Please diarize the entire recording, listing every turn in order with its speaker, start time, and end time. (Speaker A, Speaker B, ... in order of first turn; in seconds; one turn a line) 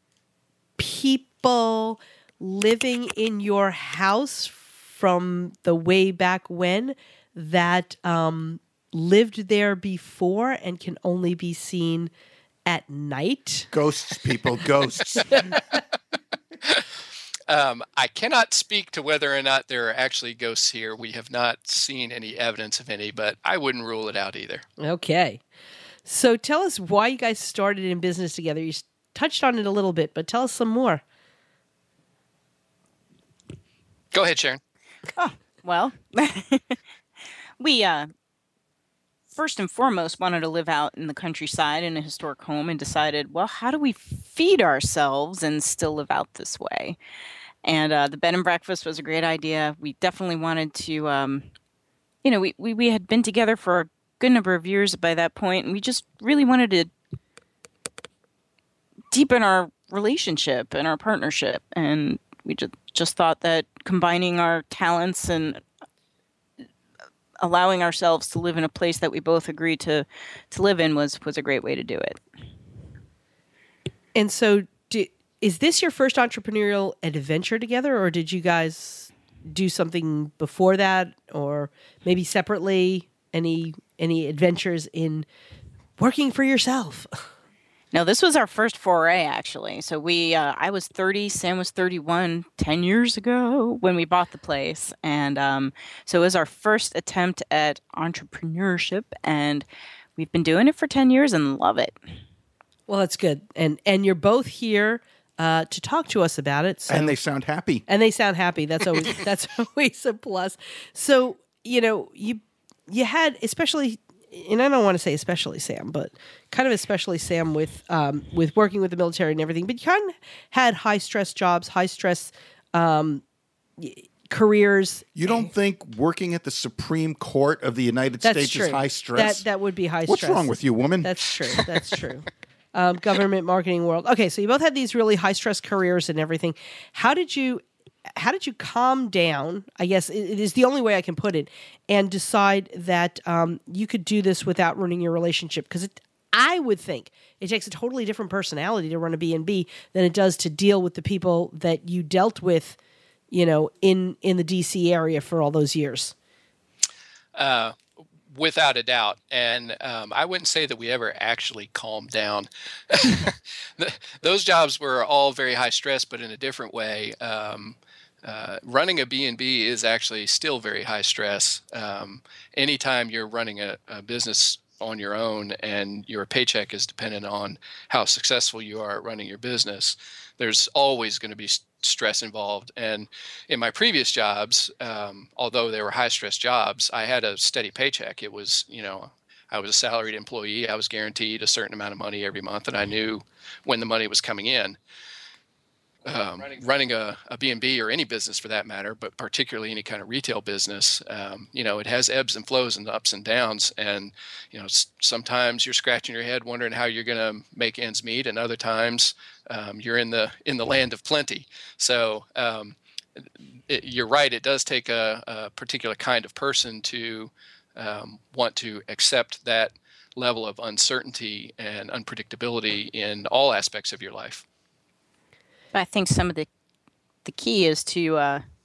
Speaker A: 0.8-12.1
Speaker A: 12.7-13.7
Speaker B: 13.7-15.6
Speaker C: 17.5-24.6
Speaker A: 24.8-25.4
Speaker A: 26.1-31.0
Speaker C: 34.1-34.6
Speaker D: 35.2-36.8
Speaker D: 37.6-38.1
Speaker D: 39.3-47.0
Speaker D: 47.6-51.5
Speaker D: 52.2-56.9
Speaker D: 59.1-65.6
Speaker D: 67.4-72.2
Speaker A: 74.1-85.3
Speaker A: 86.0-87.2
Speaker D: 87.9-102.0
Speaker A: 102.9-107.2
Speaker B: 106.9-107.8
Speaker A: 107.9-123.2
Speaker A: 123.8-125.3
Speaker B: 125.1-129.4
Speaker A: 128.2-130.5
Speaker B: 130.1-131.2
Speaker A: 131.0-137.6
Speaker A: 138.2-152.8
Speaker A: 153.3-156.1
Speaker C: 157.3-157.8
Speaker C: 158.3-194.8
Speaker C: 196.1-224.4
Speaker D: 225.7-226.5
Speaker D: 227.2-228.4